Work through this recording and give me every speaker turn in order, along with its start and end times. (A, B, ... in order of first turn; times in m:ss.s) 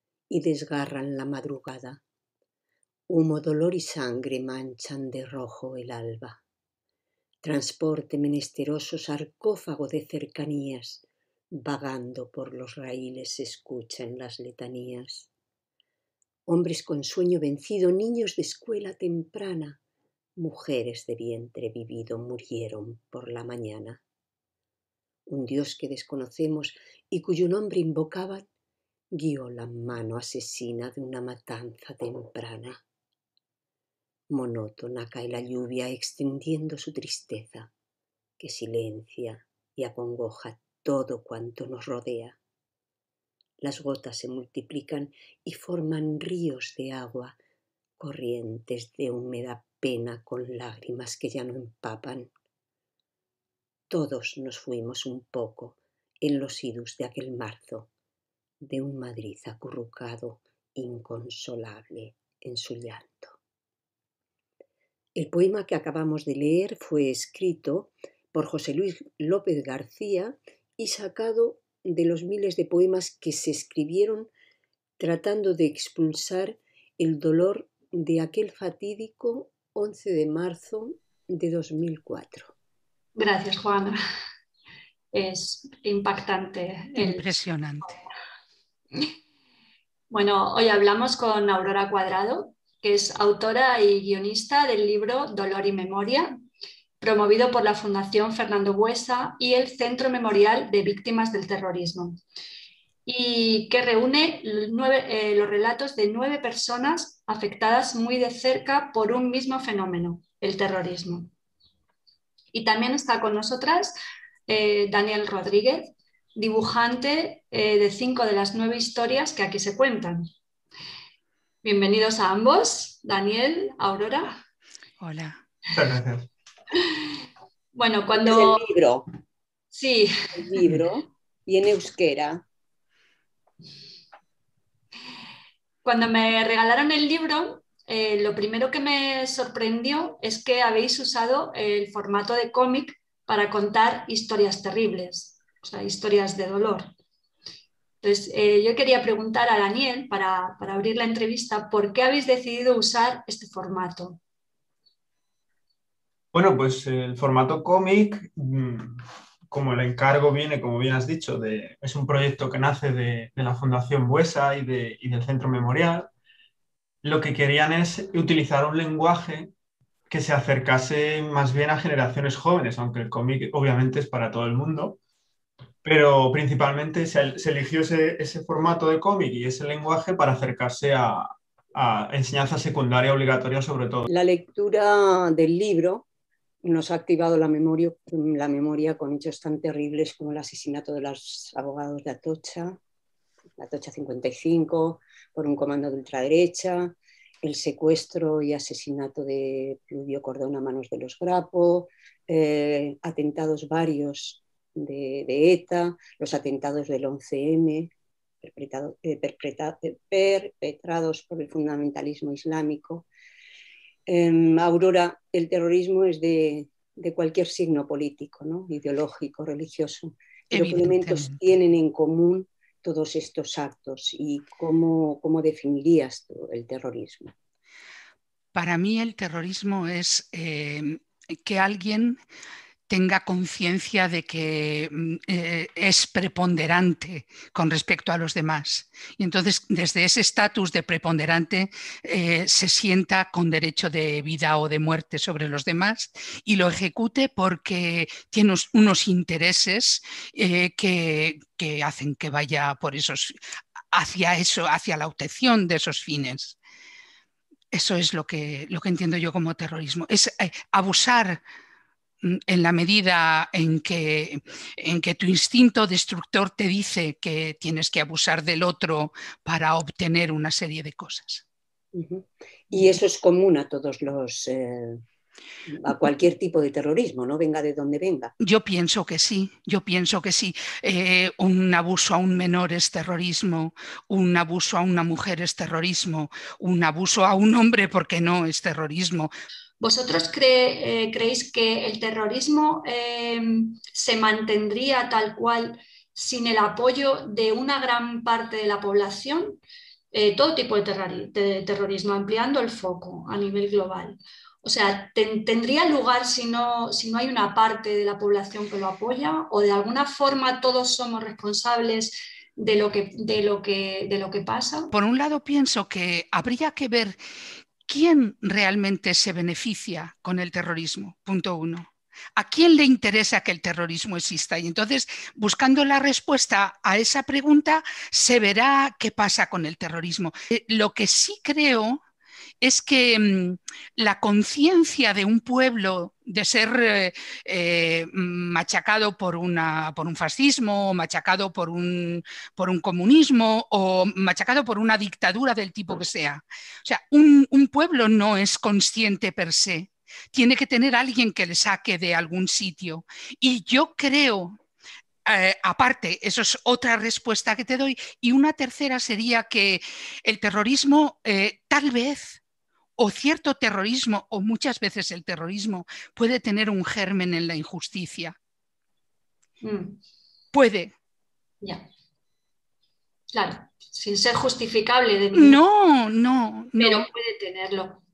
0:00.3-0:02.0 A
0:03.1-0:06.4 A
0:07.4-0:15.3 A
0:16.5-0:19.8 A
0:20.4-0:24.0 A
0:25.3-0:28.4 A
0:29.1-0:32.8 A
0:34.3-0:37.7 A
0:38.4-0:42.4 A
0:43.6-0:47.4 A
0:48.0-0:52.3 A
0:53.9-0:57.9 A
0:58.6-1:03.4 A
1:05.2-1:14.3 A
1:15.0-1:22.5 A
1:23.2-1:24.0 B
1:25.1-1:27.2 B
1:27.0-1:27.9 C
1:30.1-1:36.3 B
1:37.0-1:42.2 B
1:43.0-1:51.3 B
1:52.5-1:53.9 B
1:54.5-2:00.3 B
2:01.6-2:04.4 B
2:05.0-2:05.4 C
2:05.7-2:06.3 D
2:07.7-2:08.6 B
2:08.1-2:09.1 A
2:09.7-2:10.6 B
2:10.3-2:12.4 A
2:15.8-2:26.9 B
2:28.0-2:34.2 B
2:36.3-2:46.1 D
2:47.0-2:49.5 D
2:50.1-2:55.0 D
2:55.8-3:04.1 D
3:04.1-3:06.0 A
3:06.6-3:12.8 A
3:13.6-3:27.9 A
3:28.4-3:33.1 A
3:34.0-3:47.3 A
3:40.5-3:41.4 C
3:48.5-3:52.2 C
3:52.9-4:13.4 C
4:13.9-4:16.6 C
4:17.7-4:21.4 C
4:22.2-4:31.4 C
4:31.9-4:35.0 A
4:35.7-4:38.3 A
4:38.4-4:49.3 C
4:49.8-4:59.6 B
5:00.1-5:14.9 B
5:14.9-5:17.2 C
5:17.9-5:32.0 C
5:32.6-5:54.6 C
5:55.2-6:02.4 C
6:03.0-6:08.4 C
6:09.6-6:10.0 B
6:10.5-6:10.9 C
6:13.3-6:15.6 B
6:15.3-6:17.1 C
6:16.8-6:18.0 B